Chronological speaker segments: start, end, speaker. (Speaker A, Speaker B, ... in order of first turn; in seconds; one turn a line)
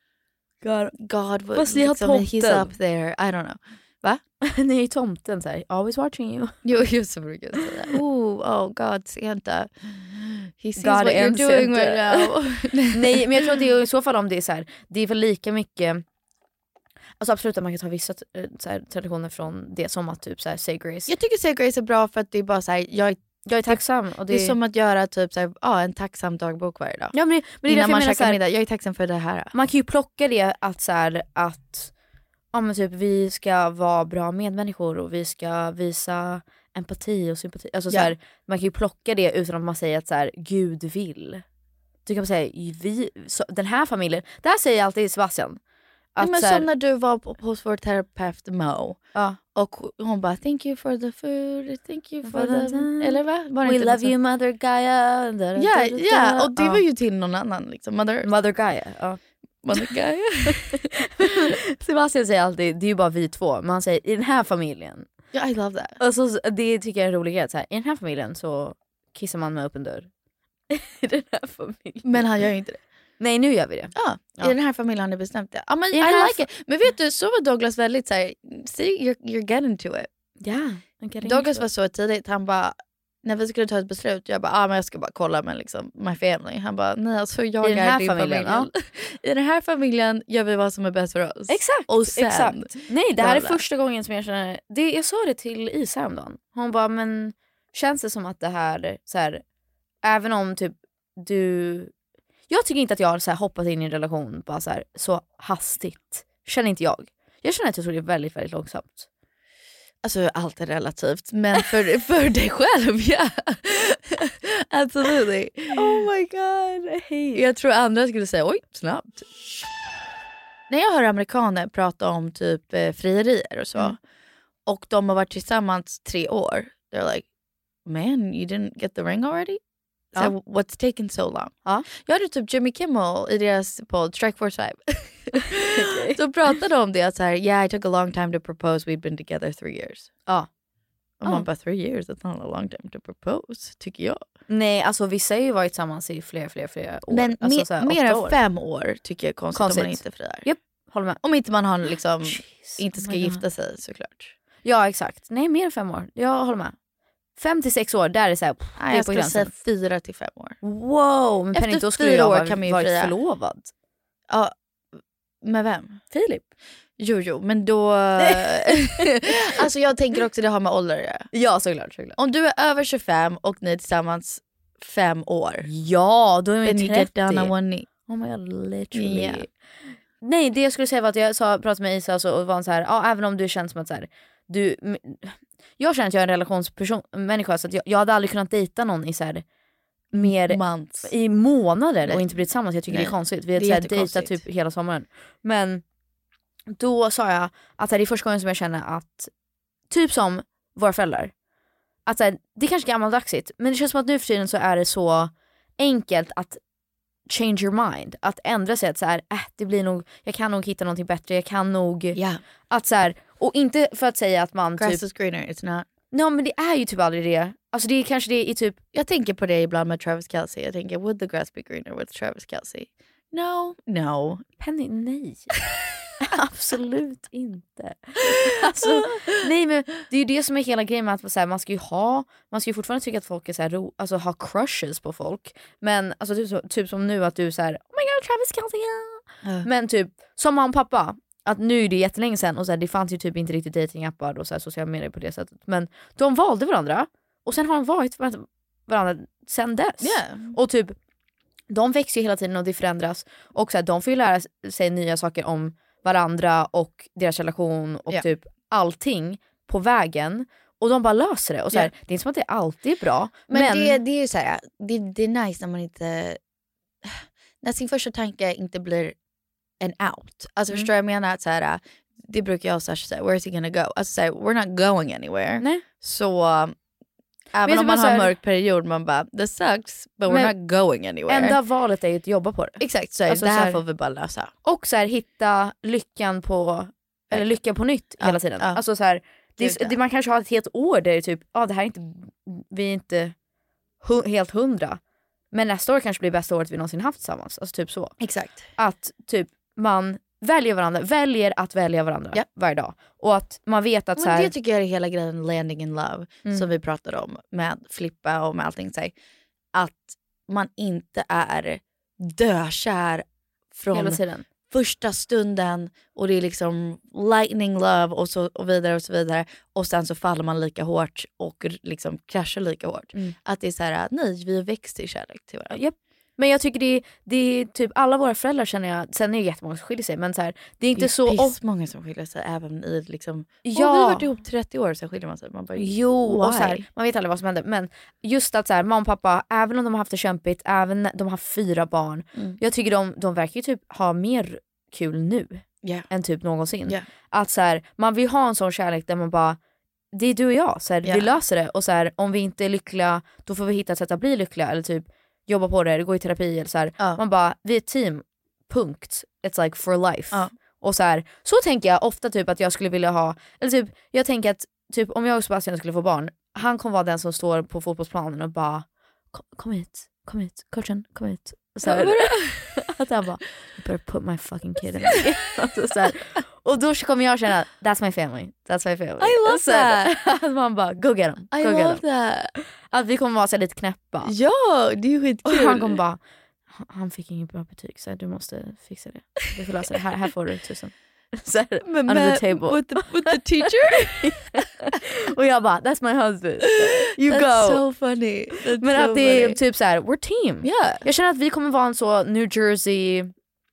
Speaker A: 0.6-0.9
Speaker B: 0.9-4.2
Speaker A: 1.6-2.7
Speaker A: 4.4-6.6
Speaker B: 6.6-13.5
Speaker A: 10.8-12.3
Speaker A: 12.9-16.0
Speaker A: 17.2-21.1
Speaker B: 21.1-29.5
Speaker A: 23.4-24.6
Speaker A: 27.1-28.4
Speaker A: 29.5-31.9
Speaker A: 32.5-41.4
Speaker B: 37.9-38.1
Speaker A: 42.0-45.6
Speaker A: 46.1-46.7
Speaker B: 46.2-49.0
Speaker B: 49.5-54.1
Speaker A: 52.2-56.8
Speaker B: 55.5-58.3
Speaker A: 58.2-59.2
Speaker B: 59.6-60.9
Speaker A: 61.2-65.1
Speaker B: 65.3-66.0
Speaker A: 66.0-70.1
Speaker A: 70.7-72.3
Speaker B: 72.0-72.8
Speaker A: 73.2-74.5
Speaker B: 74.0-80.1
Speaker A: 75.9-76.5
Speaker A: 80.4-81.7
Speaker B: 81.2-93.6
Speaker A: 87.6-88.7
Speaker A: 91.5-99.4
Speaker A: 100.0-101.9
Speaker A: 102.5-109.1
Speaker B: 110.0-116.1
Speaker A: 115.7-117.5
Speaker B: 117.3-119.3
Speaker B: 120.7-124.0
Speaker B: 124.7-127.3
Speaker B: 127.8-129.6
Speaker B: 130.1-140.1
Speaker A: 135.7-136.2
Speaker B: 141.2-144.2
Speaker A: 144.5-148.4
Speaker B: 147.1-150.4
Speaker A: 149.5-151.2
Speaker B: 151.2-154.3
Speaker A: 152.2-153.4
Speaker A: 154.6-156.7
Speaker A: 157.4-159.5
Speaker B: 158.8-160.6
Speaker A: 160.6-163.7
Speaker B: 161.5-163.1
Speaker B: 165.4-166.0
Speaker A: 166.1-166.4
Speaker B: 167.0-171.3
Speaker A: 168.2-169.1
Speaker A: 171.3-172.2
Speaker B: 172.2-175.7
Speaker A: 175.6-179.5
Speaker B: 176.6-177.9
Speaker B: 178.9-179.4
Speaker A: 180.2-189.4
Speaker A: 190.1-195.8
Speaker B: 190.1-191.1
Speaker B: 192.1-192.4
Speaker B: 192.9-194.4
Speaker A: 196.7-199.3
Speaker A: 199.9-201.3
Speaker A: 202.1-206.6
Speaker A: 207.3-215.0
Speaker B: 212.1-212.4
Speaker B: 214.8-215.9
Speaker A: 216.1-218.8
Speaker B: 218.9-224.4
Speaker A: 224.6-225.5
Speaker A: 226.2-250.9
Speaker B: 228.8-229.2
Speaker B: 250.0-250.6
Speaker A: 251.7-264.0
Speaker B: 263.5-266.4
Speaker B: 267.0-269.2
Speaker B: 269.8-276.7
Speaker A: 275.6-275.9
Speaker B: 277.5-281.6
Speaker A: 277.6-278.3
Speaker A: 280.3-280.5
Speaker A: 281.3-283.8
Speaker B: 282.8-284.5
Speaker A: 284.6-293.3
Speaker B: 288.2-288.8
Speaker B: 289.6-289.9
Speaker A: 294.0-295.0
Speaker A: 295.5-298.2
Speaker B: 298.2-298.7
Speaker A: 298.8-304.5
Speaker B: 304.2-309.1
Speaker A: 306.4-306.7
Speaker B: 309.7-325.8
Speaker A: 313.9-314.4
Speaker A: 325.7-331.6
Speaker B: 330.9-336.9
Speaker A: 333.6-334.4
Speaker A: 335.8-349.6
Speaker B: 345.8-346.1
Speaker A: 350.1-382.0
Speaker B: 351.0-351.3
Speaker B: 371.8-372.8
Speaker B: 379.2-380.2
Speaker B: 381.5-382.5
Speaker A: 382.9-384.3
Speaker B: 384.2-386.0
Speaker A: 385.4-386.2
Speaker A: 386.7-393.4
Speaker B: 391.8-394.6
Speaker A: 394.2-397.8
Speaker B: 396.7-399.6
Speaker A: 398.8-403.3
Speaker B: 400.6-401.1